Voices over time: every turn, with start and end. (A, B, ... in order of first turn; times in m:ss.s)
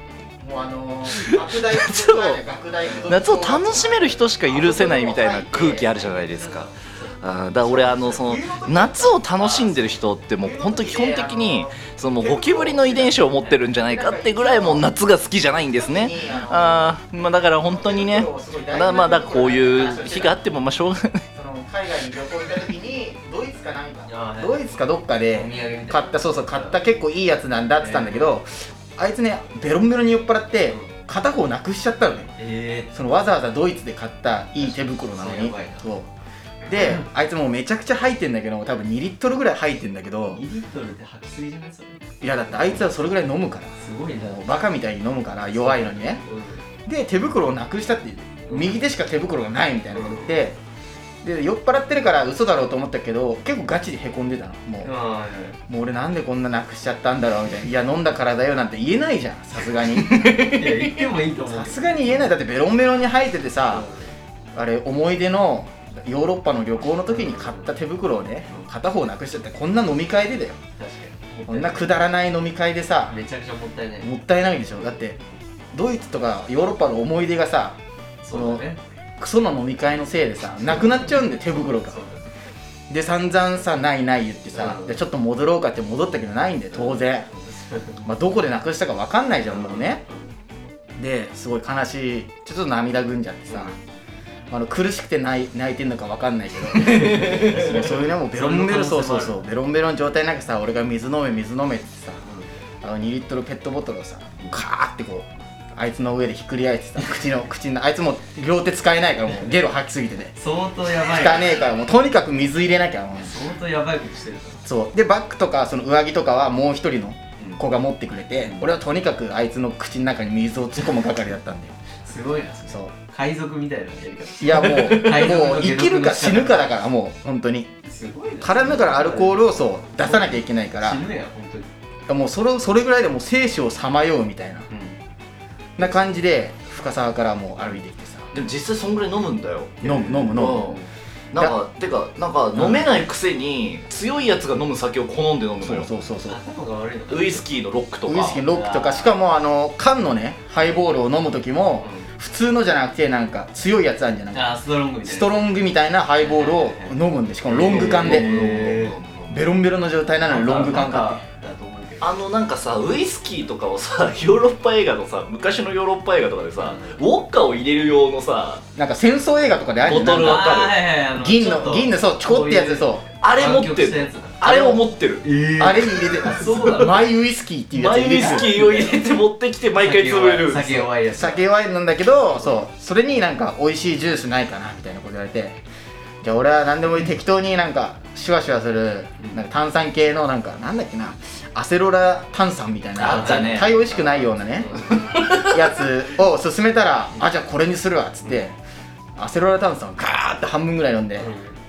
0:00.4-0:06.2 A
0:01.1-0:02.4 B
0:03.0-0:06.7 B
0:06.1-0:08.0 C
0:07.2-0:21.2 B
0:07.6-0:13.3 A
0:13.3-0:13.7 C
0:13.8-0:14.9 A
0:15.7-0:16.9 A
0:17.6-0:20.4 A
0:21.3-0:32.3 A
0:24.1-0:24.6 C
0:25.3-0:26.8 C
0:27.8-0:28.3 C
0:32.4-0:33.0 C
0:32.9-0:36.1 A
0:34.6-0:35.9 C
0:36.7-0:40.4 A
0:36.7-0:37.0 C
0:40.3-0:42.0 C
0:42.2-0:46.2 A
0:43.8-0:44.4 C
0:45.6-0:46.6 C
0:46.8-0:50.6 A
0:48.5-0:48.8 C
0:49.9-0:50.4 C
0:51.2-0:54.9 A
0:54.8-0:55.6 C
0:55.7-1:00.7 A
0:59.8-1:01.0 B
1:00.4-1:02.3 C
1:01.4-1:03.8 A
1:03.7-1:04.1 C
1:04.5-1:10.6 A
1:07.0-1:07.7 C
1:10.8-1:12.0 C
1:11.5-1:13.2 A
1:13.1-1:14.1 C
1:14.0-1:15.2 A
1:15.7-1:17.8 A
1:18.2-1:18.8 C
1:18.3-1:18.6 A
1:19.2-1:22.0 A
1:20.8-1:22.2 C
1:22.9-1:27.3 A
1:24.6-1:25.0 C
1:26.7-1:28.0 C
1:28.0-1:30.0 A
1:29.5-1:30.3 C
1:31.0-1:33.8 A
1:33.5-1:33.8 C
1:34.5-1:42.2 A
1:36.8-1:39.4 C
1:42.2-1:42.5 C
1:42.8-1:50.3 A
1:50.3-1:51.6 C
1:51.0-1:53.4 A
1:53.2-1:54.6 C
1:54.6-2:01.7 A
1:58.4-1:58.7 C
2:02.0-2:06.7 C
2:02.7-2:02.9 A
2:04.4-2:07.7 A
2:04.7-2:05.1 B
2:07.8-2:11.7 C
2:08.4-2:11.0 A
2:12.1-2:14.7 A
2:14.7-2:15.0 C
2:15.8-2:18.3 A
2:18.3-2:20.8 B
2:19.8-2:20.8 A
2:19.8-2:20.9 C
2:21.3-2:25.9 B
2:22.6-2:22.8 A
2:25.6-2:26.4 A
2:26.3-2:27.4 C
2:27.1-2:28.4 B
2:28.0-2:34.5 A
2:28.5-2:29.2 C
2:31.8-2:32.1 C
2:34.3-2:35.4 C
2:35.0-2:38.3 A
2:36.2-2:39.4 C
2:37.6-2:39.3 B
2:39.3-2:41.2 A
2:40.2-2:42.2 C
2:42.0-2:48.6 B
2:46.6-2:47.0 C
2:48.7-2:53.1 A
2:49.8-2:50.8 B
2:50.1-2:57.0 C
2:53.2-2:55.2 B
2:54.4-2:54.8 A
2:55.6-2:58.6 A
2:57.7-3:00.9 B
2:58.2-2:59.0 C
2:59.8-3:01.4 C
3:01.1-3:05.6 A
3:06.2-3:18.6 A
3:13.0-3:15.0 C
3:13.0-3:13.8 B
3:14.9-3:15.6 B
3:19.2-3:21.3 A
3:21.2-3:21.6 C